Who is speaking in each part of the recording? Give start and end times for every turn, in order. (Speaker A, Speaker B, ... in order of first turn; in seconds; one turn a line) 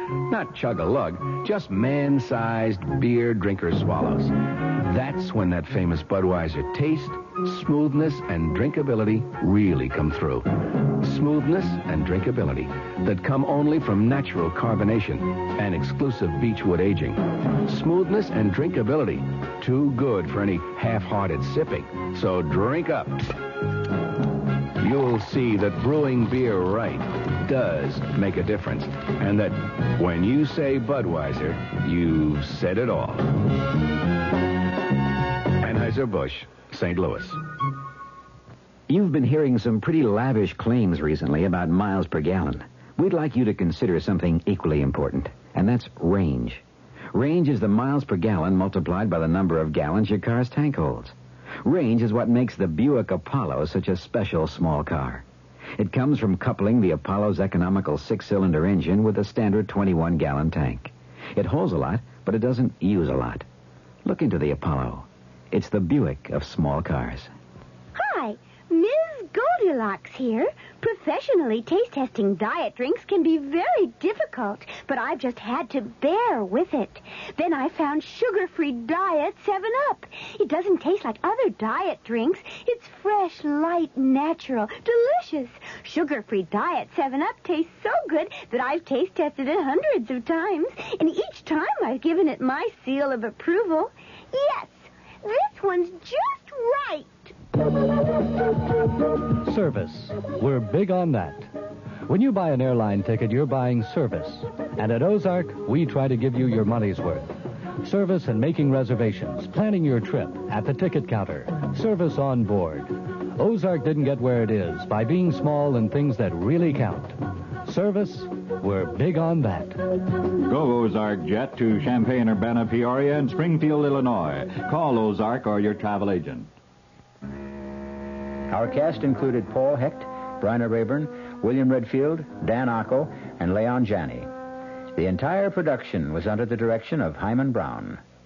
Speaker A: 0.3-23.4
Speaker A: 24.8-33.3
Speaker A: 35.6-37.4
Speaker B: 38.9-55.3
Speaker B: 55.8-63.5
Speaker B: 64.0-67.3
Speaker C: 68.0-97.3
Speaker D: 99.4-101.5
Speaker D: 102.1-119.8
Speaker E: 120.5-126.5
Speaker F: 128.5-134.3
Speaker F: 134.9-138.0